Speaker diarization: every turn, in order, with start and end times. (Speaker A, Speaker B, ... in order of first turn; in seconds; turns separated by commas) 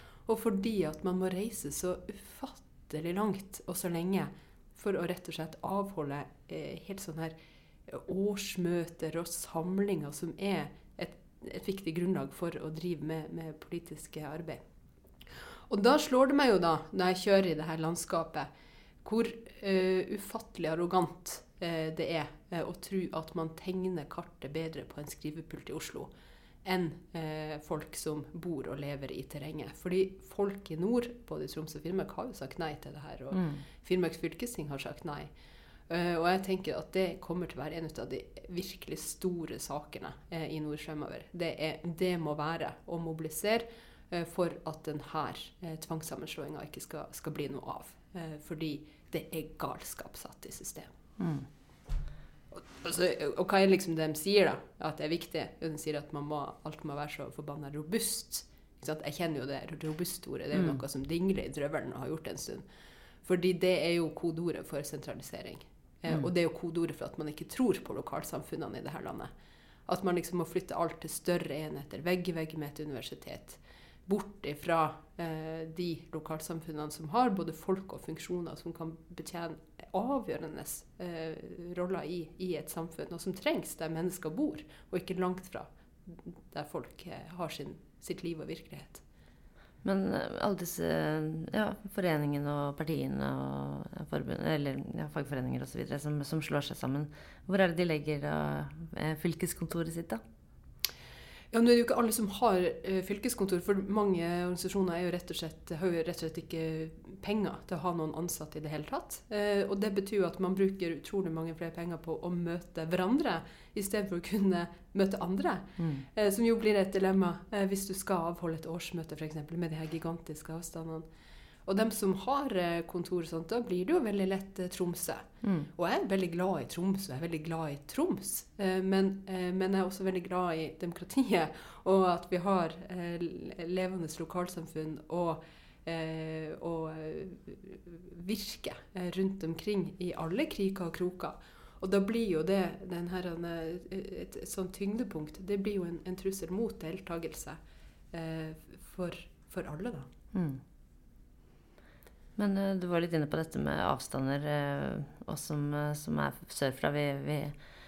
Speaker A: 0.3-7.4, Speaker A: 7.9-14.6, Speaker A: 15.7-18.5, Speaker A: 19.0-26.1, Speaker A: 26.6-35.3, Speaker B: 33.3-33.6, Speaker A: 35.9-50.9, Speaker B: 51.2-51.5, Speaker A: 52.5-62.7, Speaker B: 60.5-60.8, Speaker A: 63.2-69.3, Speaker A: 69.9-89.0, Speaker B: 89.8-100.2, Speaker A: 101.5-121.1, Speaker B: 115.8-116.0, Speaker A: 121.7-147.6, Speaker B: 125.4-125.7, Speaker A: 148.1-150.1, Speaker B: 150.3-150.6, Speaker B: 152.4-157.6